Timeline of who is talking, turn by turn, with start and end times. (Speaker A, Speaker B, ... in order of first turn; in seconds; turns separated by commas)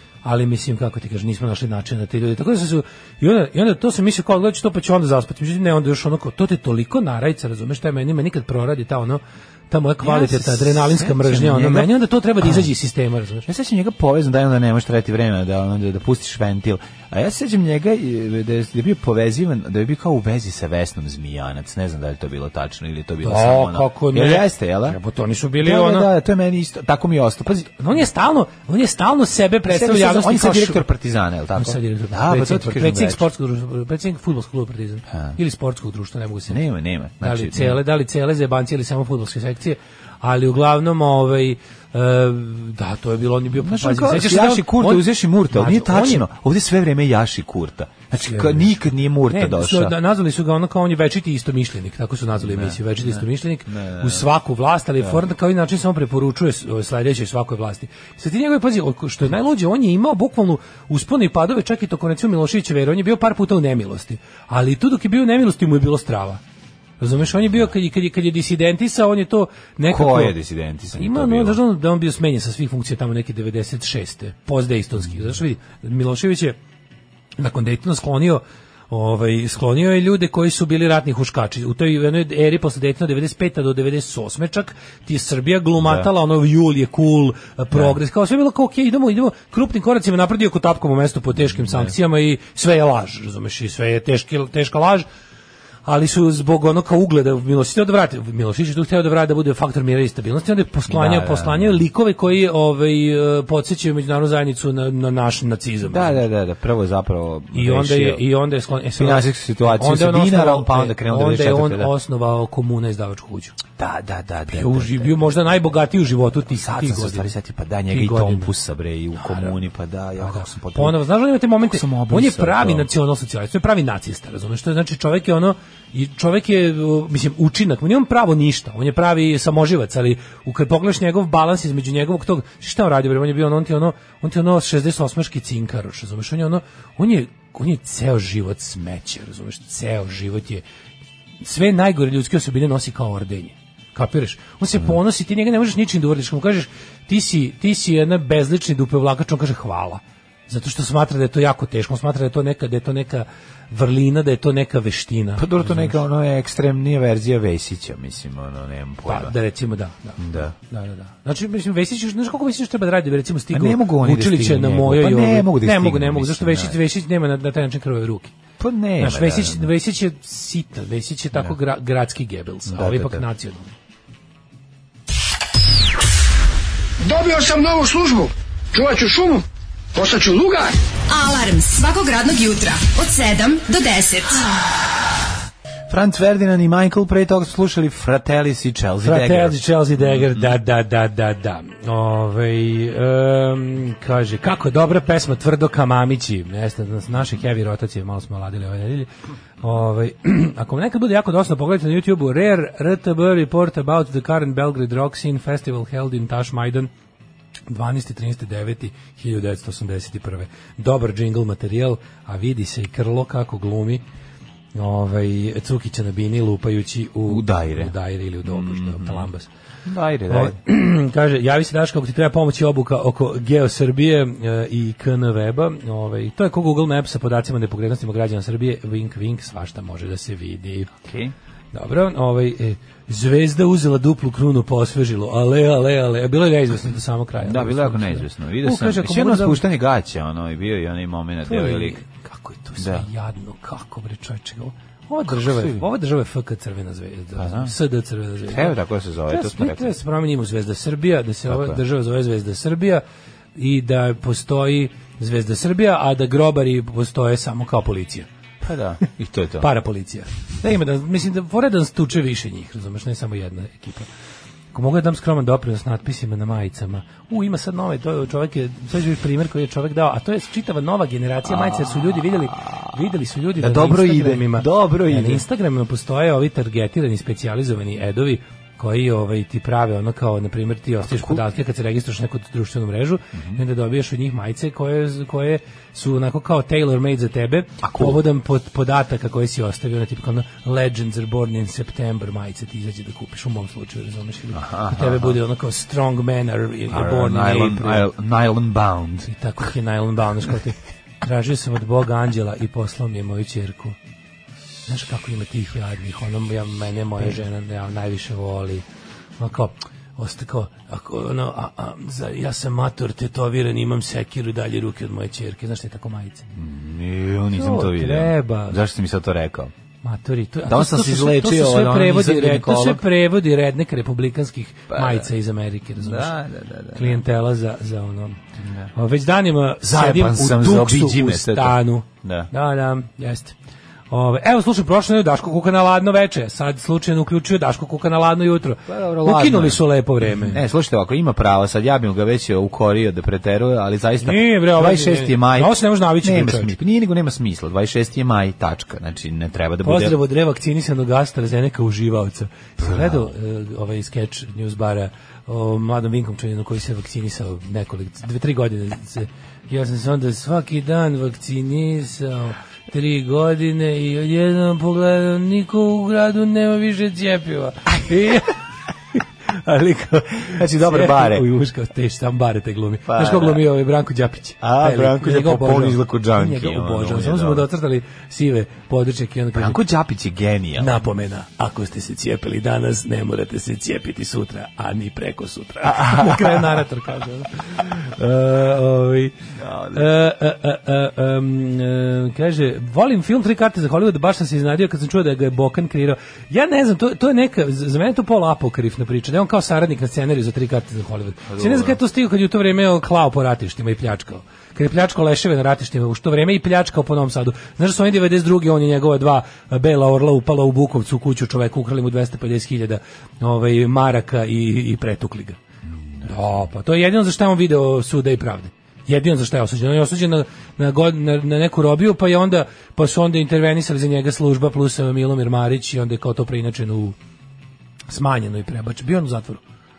Speaker A: 0.2-13.5, Speaker B: 10.0-12.7, Speaker B: 13.5-25.0, Speaker A: 23.2-26.1, Speaker B: 25.6-27.7, Speaker A: 27.8-30.8, Speaker B: 29.7-33.3, Speaker A: 31.6-36.6, Speaker B: 36.5-37.8, Speaker A: 37.2-46.3, Speaker B: 43.5-50.0, Speaker A: 48.2-48.8, Speaker A: 49.3-66.4, Speaker B: 52.4-54.3, Speaker A: 67.0-70.3, Speaker B: 67.3-67.7, Speaker B: 69.9-71.6, Speaker A: 70.9-76.6, Speaker A: 77.4-95.1, Speaker B: 85.8-86.1, Speaker B: 91.4-91.9, Speaker A: 95.9-106.2, Speaker B: 100.9-101.8, Speaker B: 105.8-108.2, Speaker A: 107.5-113.6, Speaker B: 109.0-111.9, Speaker B: 113.8-115.3, Speaker A: 114.5-117.3, Speaker B: 116.4-121.0, Speaker A: 117.9-118.5, Speaker A: 119.2-119.5, Speaker A: 120.2-140.6, Speaker B: 121.6-122.9, Speaker A: 141.4-156.0, Speaker B: 155.4-159.3, Speaker A: 159.1-168.3, Speaker B: 160.2-160.6, Speaker B: 163.5-166.8, Speaker B: 168.6-169.7, Speaker A: 169.0-173.7, Speaker B: 172.7-173.2, Speaker C: 177.0-179.4, Speaker C: 179.9-180.8, Speaker D: 181.1-184.5, Speaker B: 185.9-190.5, Speaker A: 189.0-199.1, Speaker A: 199.6-206.9, Speaker A: 207.7-214.0, Speaker A: 214.8-219.5, Speaker B: 217.3-219.3, Speaker B: 219.8-220.6, Speaker A: 220.3-230.9, Speaker B: 231.0-231.3, Speaker A: 231.7-239.6, Speaker B: 237.4-242.0, Speaker A: 241.4-248.8, Speaker B: 242.8-243.1, Speaker B: 245.3-245.8, Speaker B: 247.4-247.7, Speaker B: 248.5-249.9, Speaker A: 249.3-253.0, Speaker B: 251.5-251.8, Speaker A: 253.6-258.3, Speaker B: 258.6-259.7, Speaker A: 259.6-264.1, Speaker A: 264.7-298.1, Speaker B: 271.5-272.8, Speaker B: 273.6-275.4, Speaker B: 281.1-281.4, Speaker B: 283.4-283.6, Speaker B: 287.8-288.2, Speaker B: 294.5-295.4, Speaker B: 296.9-299.3, Speaker A: 299.3-304.0, Speaker A: 304.9-308.8, Speaker A: 309.4-316.5, Speaker B: 316.5-319.7, Speaker A: 317.5-318.8, Speaker A: 320.0-326.4, Speaker B: 320.7-323.0, Speaker B: 324.9-325.3, Speaker B: 326.0-327.2, Speaker A: 326.9-328.4, Speaker B: 328.6-328.9, Speaker A: 328.9-333.6, Speaker B: 329.8-332.5, Speaker A: 334.1-340.6, Speaker B: 338.9-350.2, Speaker A: 344.2-346.8, Speaker A: 349.8-368.6, Speaker B: 352.8-353.3, Speaker A: 369.2-379.8, Speaker B: 370.4-371.5, Speaker B: 373.1-373.6, Speaker B: 374.6-377.7, Speaker B: 379.5-381.0, Speaker A: 380.8-415.6, Speaker B: 385.9-386.8, Speaker B: 389.6-390.1, Speaker B: 401.5-402.0, Speaker B: 415.9-416.3, Speaker A: 416.2-427.2, Speaker A: 428.1-429.6